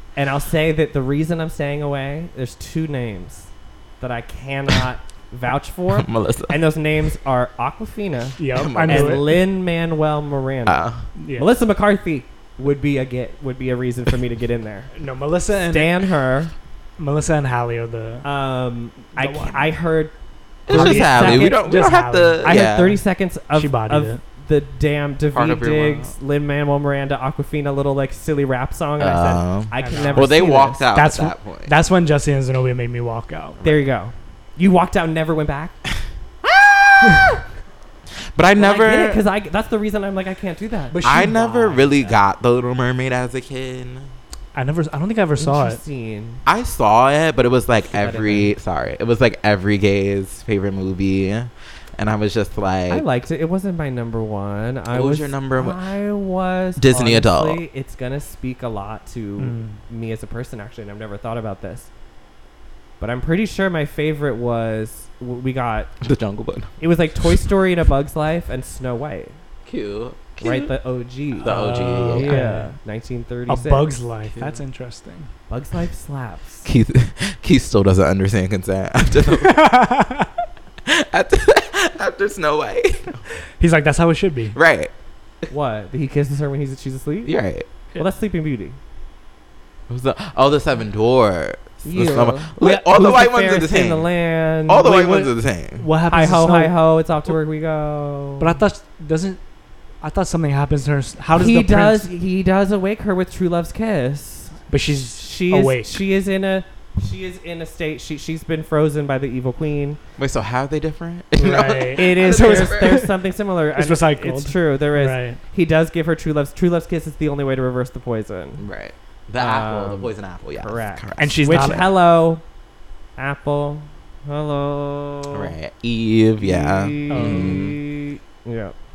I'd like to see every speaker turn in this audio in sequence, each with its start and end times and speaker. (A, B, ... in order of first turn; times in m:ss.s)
0:00.2-0:10.8 A
0:06.0-0:06.6 B
0:08.4-0:09.3 C
0:08.5-0:09.2 B
0:10.6-0:11.0 B
0:11.2-0:11.5 C
0:11.4-0:14.9 A
0:14.9-0:16.0 C
0:15.7-0:16.5 A
0:17.0-0:18.2 C
0:18.2-0:20.1 A
0:19.1-0:19.7 C
0:20.7-0:23.0 B
0:20.7-0:21.6 A
0:20.7-0:22.5 C
0:22.4-0:30.8 A
0:23.5-0:24.2 C
0:25.3-0:26.1 B
0:29.0-0:31.7 B
0:29.8-0:33.6 C
0:33.6-0:35.8 A
0:36.4-0:37.3 B
0:38.3-0:39.2 B
0:38.6-0:41.0 A
0:40.9-0:42.1 C
0:41.0-0:44.1 B
0:44.5-0:45.8 C
0:45.4-0:46.4 A
0:46.4-0:53.0 B
0:47.9-0:48.5 A
0:52.9-1:01.9 A
0:54.9-0:55.8 B
0:56.8-0:57.6 B
0:59.4-0:59.8 C
1:03.0-1:05.9 A
1:06.0-1:06.7 B
1:06.8-1:09.4 A
1:09.6-1:10.7 B
1:10.4-1:13.9 A
1:11.4-1:12.3 B
1:11.4-1:12.7 C
1:13.5-1:15.3 C
1:15.5-1:16.6 A
1:16.6-1:19.7 B
1:19.2-1:20.3 C
1:20.8-1:23.2 B
1:23.6-1:24.6 C
1:24.5-1:24.9 B
1:25.5-1:27.4 A
1:27.2-1:27.7 B
1:28.0-1:28.8 A
1:29.9-1:34.1 B
1:31.8-1:35.3 A
1:34.6-1:35.9 B
1:35.8-1:36.7 C
1:36.1-1:38.6 A
1:38.4-1:39.4 C
1:40.0-1:42.1 C
1:41.3-1:50.0 A
1:44.7-1:46.0 C
1:50.2-1:53.0 B
1:51.4-1:53.1 C
1:51.9-1:58.6 A
1:53.7-1:55.4 C
1:58.6-2:01.8 B
1:59.4-2:02.4 A
2:01.2-2:01.9 C
2:03.2-2:05.5 A
2:05.3-2:07.8 B
2:06.4-2:08.7 A
2:07.1-2:07.7 C